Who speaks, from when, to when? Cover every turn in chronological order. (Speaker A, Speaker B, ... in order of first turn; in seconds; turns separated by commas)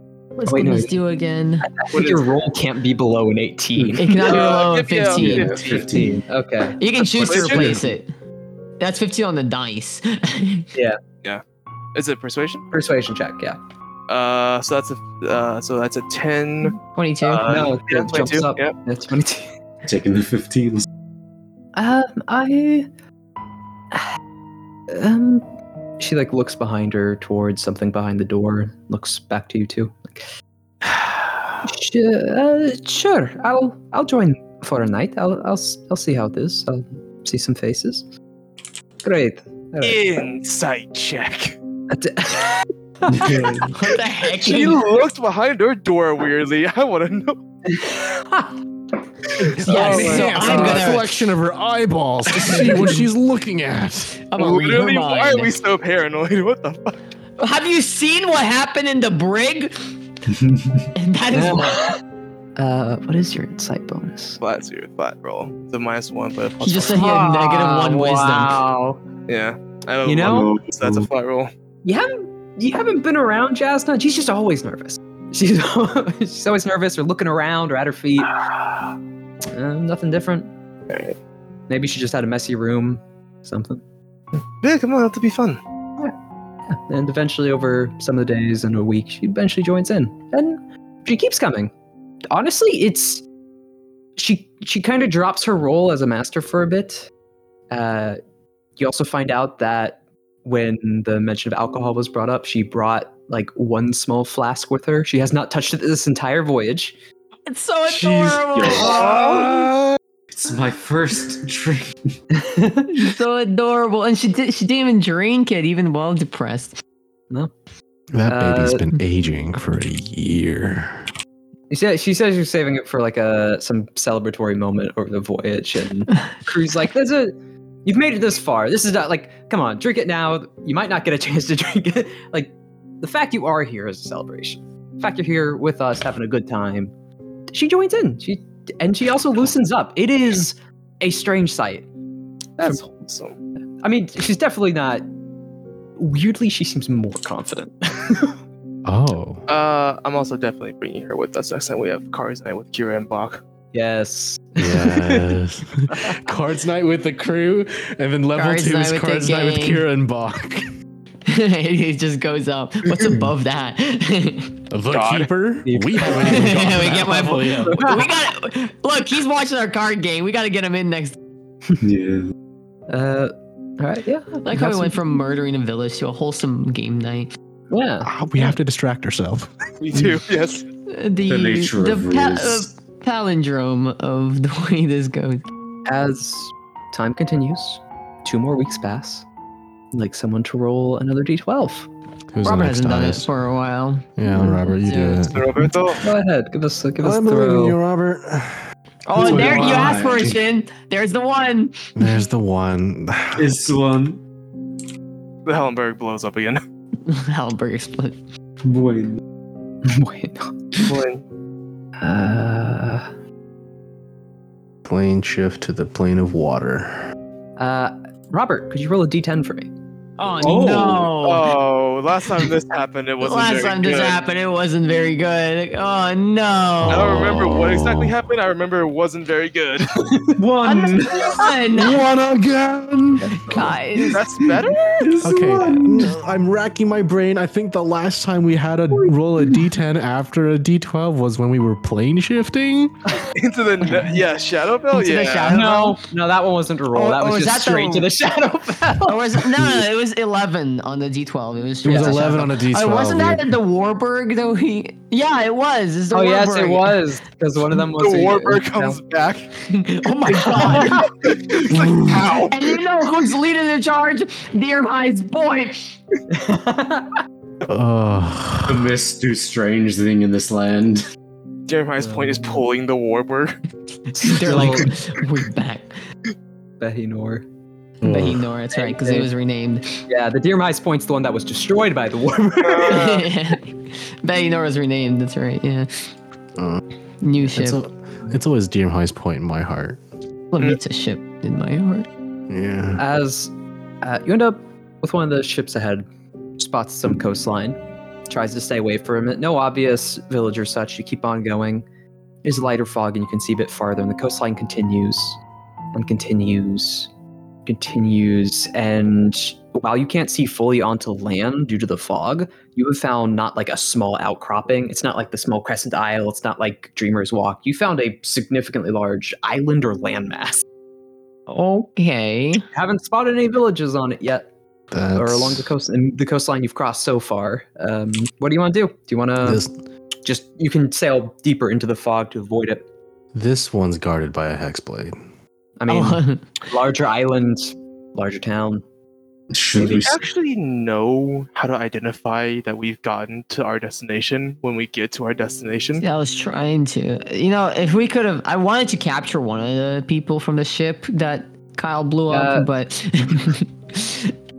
Speaker A: 0.4-1.7, Speaker B: 0.5-1.0, Speaker B: 1.6-4.5, Speaker C: 1.9-2.3, Speaker D: 3.8-4.0, Speaker A: 4.0-5.6, Speaker C: 4.2-5.9, Speaker D: 5.2-6.2, Speaker B: 5.9-7.8, Speaker A: 6.8-8.1, Speaker C: 7.2-7.8, Speaker A: 8.8-10.7, Speaker B: 10.7-11.0, Speaker C: 11.9-12.6, Speaker B: 12.7-13.6, Speaker C: 14.1-18.7, Speaker A: 16.9-17.6, Speaker B: 17.4-19.6, Speaker D: 19.8-20.9, Speaker B: 21.8-22.9, Speaker B: 24.9-25.4, Speaker B: 26.0-30.2, Speaker B: 31.6-38.0, Speaker B: 39.0-40.0, Speaker C: 39.8-41.6, Speaker B: 41.9-43.7, Speaker D: 43.1-43.7, Speaker A: 43.7-44.8, Speaker C: 44.4-47.4, Speaker B: 47.7-48.5, Speaker C: 49.4-50.9, Speaker A: 49.6-51.2, Speaker E: 49.7-54.2, Speaker A: 52.5-52.9, Speaker A: 54.3-55.5, Speaker C: 54.4-57.0, Speaker A: 57.4-59.8, Speaker D: 60.3-60.9, Speaker A: 61.0-61.9, Speaker B: 61.3-62.0, Speaker B: 62.6-64.4, Speaker C: 64.4-67.1, Speaker A: 66.6-68.6, Speaker B: 66.8-69.0, Speaker C: 69.3-71.5, Speaker B: 70.0-70.5, Speaker D: 70.3-71.1, Speaker B: 71.8-78.3, Speaker B: 79.5-80.5, Speaker C: 80.9-81.2, Speaker B: 81.7-83.8, Speaker C: 84.6-85.6, Speaker B: 86.7-91.7, Speaker B: 92.3-93.3, Speaker B: 94.2-97.1, Speaker B: 97.7-98.2, Speaker B: 98.8-107.0, Speaker A: 107.5-109.5, Speaker D: 107.9-109.6, Speaker B: 108.6-109.6, Speaker C: 108.9-109.4, Speaker D: 110.3-112.1, Speaker B: 112.3-112.9, Speaker A: 112.9-116.8, Speaker E: 118.1-121.1, Speaker B: 118.2-118.9, Speaker B: 121.7-136.9, Speaker B: 137.5-141.9, Speaker C: 142.6-143.3, Speaker B: 143.8-145.1, Speaker B: 146.0-148.4, Speaker E: 148.8-149.4, Speaker C: 149.5-153.4, Speaker B: 153.7-155.4, Speaker E: 154.6-160.7, Speaker B: 155.9-156.2, Speaker A: 158.4-159.9, Speaker A: 161.3-164.6, Speaker E: 164.7-167.9, Speaker C: 164.9-165.3, Speaker B: 165.7-168.0, Speaker A: 166.0-171.2, Speaker D: 171.8-172.3, Speaker B: 172.9-175.0, Speaker A: 174.4-177.3, Speaker B: 177.7-178.1, Speaker E: 178.0-179.6, Speaker C: 179.8-180.7, Speaker A: 180.9-185.4, Speaker D: 181.2-182.7, Speaker B: 185.9-189.3, Speaker B: 189.9-191.9, Speaker E: 192.3-193.3, Speaker A: 192.4-195.3, Speaker E: 194.2-195.7, Speaker C: 195.3-196.1, Speaker B: 196.0-197.8, Speaker E: 197.0-198.6, Speaker A: 199.1-201.9, Speaker D: 199.2-200.4, Speaker E: 202.0-203.6, Speaker D: 203.4-204.2, Speaker C: 205.5-206.6, Speaker A: 207.1-208.2, Speaker D: 208.6-209.2, Speaker B: 209.8-210.5, Speaker C: 210.8-211.2, Speaker B: 212.0-213.1, Speaker E: 214.9-217.1, Speaker B: 217.6-219.7, Speaker A: 220.2-221.5, Speaker D: 220.4-221.2, Speaker C: 221.2-224.2, Speaker A: 223.2-227.3, Speaker E: 226.8-228.2, Speaker C: 226.9-230.2, Speaker D: 230.4-231.5, Speaker A: 230.6-232.0, Speaker E: 231.7-233.5, Speaker B: 233.2-233.8, Speaker A: 233.4-234.2, Speaker C: 234.1-235.1, Speaker D: 234.9-236.1, Speaker E: 235.2-243.0, Speaker C: 243.3-245.7, Speaker A: 244.9-246.0, Speaker B: 245.4-249.8, Speaker A: 246.9-248.1, Speaker A: 249.0-257.0, Speaker E: 251.8-253.6, Speaker B: 251.8-252.2, Speaker B: 256.1-259.0, Speaker C: 258.0-259.5, Speaker A: 259.7-261.1, Speaker C: 260.6-262.8, Speaker B: 260.6-261.1, Speaker D: 261.8-262.2, Speaker A: 262.5-265.9, Speaker B: 266.3-267.2, Speaker E: 267.7-268.9, Speaker D: 268.7-271.0, Speaker C: 271.7-273.6, Speaker B: 272.0-272.6, Speaker B: 274.1-275.0, Speaker A: 274.2-275.9, Speaker B: 276.8-277.4, Speaker D: 278.0-278.4, Speaker E: 278.1-278.3, Speaker A: 278.1-280.0, Speaker B: 278.7-279.3, Speaker B: 280.1-283.3, Speaker C: 282.6-283.2, Speaker A: 282.9-286.0, Speaker E: 286.6-286.8, Speaker A: 287.2-287.8, Speaker E: 287.5-290.0, Speaker A: 290.5-292.1, Speaker E: 292.5-293.0, Speaker B: 293.0-296.1, Speaker B: 296.6-301.9, Speaker B: 302.4-305.4, Speaker B: 305.9-307.1, Speaker B: 307.7-320.6, Speaker A: 321.5-322.6, Speaker B: 322.7-324.5, Speaker E: 324.9-325.7, Speaker B: 325.1-329.6, Speaker E: 329.4-329.7, Speaker B: 330.2-332.8, Speaker E: 333.3-335.2, Speaker B: 335.8-338.8, Speaker A: 335.9-336.4, Speaker D: 339.5-340.2, Speaker C: 339.8-346.0, Speaker B: 339.8-340.1, Speaker A: 346.0-354.3, Speaker B: 352.3-352.7